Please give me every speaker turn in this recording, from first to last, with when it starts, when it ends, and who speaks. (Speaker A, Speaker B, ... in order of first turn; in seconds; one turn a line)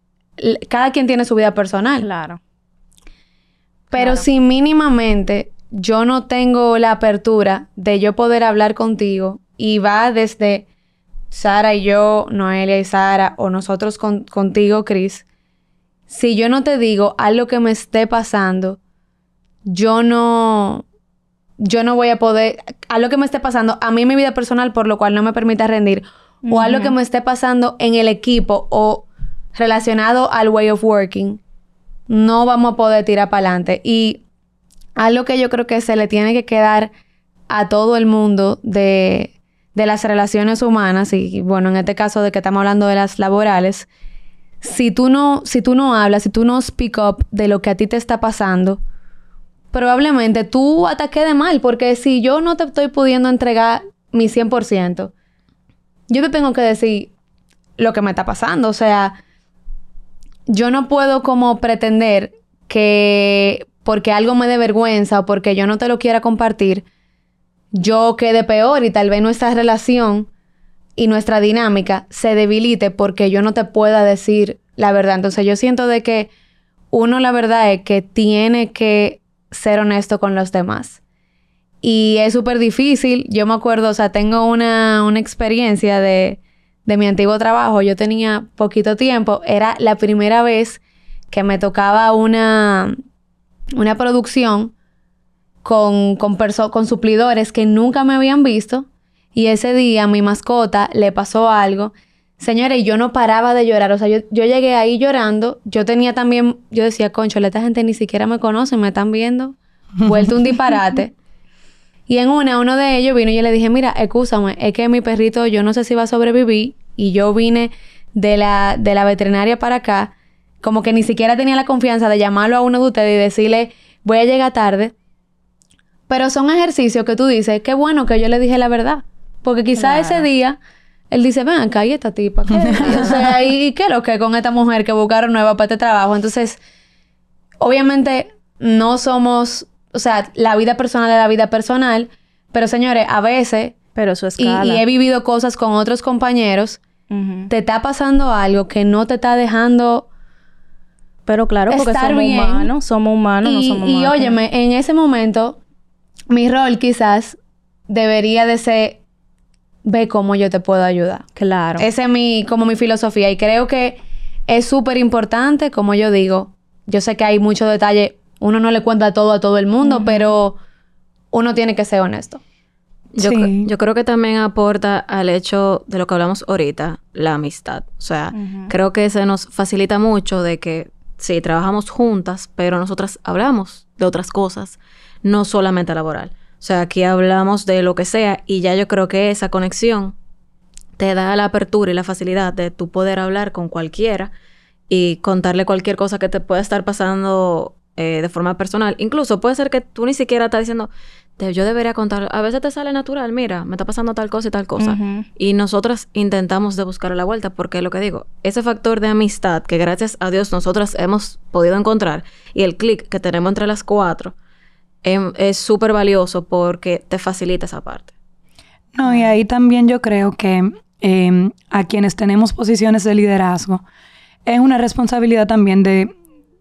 Speaker A: 0.4-2.1
Speaker B: 2.0-2.4
Speaker A: 3.9-10.7
Speaker B: 4.0-4.2
Speaker A: 11.3-15.2
Speaker A: 16.1-18.8
Speaker A: 19.6-20.8
Speaker A: 21.6-31.4
Speaker B: 26.5-26.9
Speaker A: 32.1-34.2
Speaker A: 35.0-36.9
Speaker A: 37.5-43.9
Speaker A: 44.6-48.8
Speaker A: 49.7-55.1
Speaker A: 56.1-57.1
Speaker A: 57.8-59.2
Speaker A: 60.5-66.8
Speaker A: 67.7-70.3
Speaker A: 71.0-76.3
Speaker A: 76.9-81.0
Speaker A: 81.8-90.8
Speaker A: 91.3-93.0
Speaker A: 93.8-94.7
Speaker A: 95.6-111.1
Speaker C: 110.0-110.6
Speaker A: 112.1-124.9
Speaker A: 126.1-130.6
Speaker B: 129.8-130.3
Speaker A: 131.1-136.6
Speaker B: 132.7-133.2
Speaker C: 132.7-133.2
Speaker A: 137.6-143.8
Speaker B: 143.9-144.8
Speaker A: 144.4-146.8
Speaker B: 147.1-147.5
Speaker A: 147.5-150.1
Speaker B: 151.3-154.4
Speaker A: 151.7-152.7
Speaker A: 153.4-155.6
Speaker A: 156.3-157.4
Speaker A: 157.9-159.0
Speaker A: 159.8-161.2
Speaker B: 161.4-161.9
Speaker A: 161.8-170.6
Speaker B: 169.8-170.3
Speaker A: 171.3-172.4
Speaker D: 173.1-190.2
Speaker C: 173.2-173.7
Speaker B: 178.3-178.7
Speaker D: 191.0-194.3
Speaker D: 194.9-214.3
Speaker B: 204.8-205.3
Speaker D: 215.0-218.1
Speaker C: 218.9-223.8
Speaker B: 219.0-219.3
Speaker C: 224.5-226.2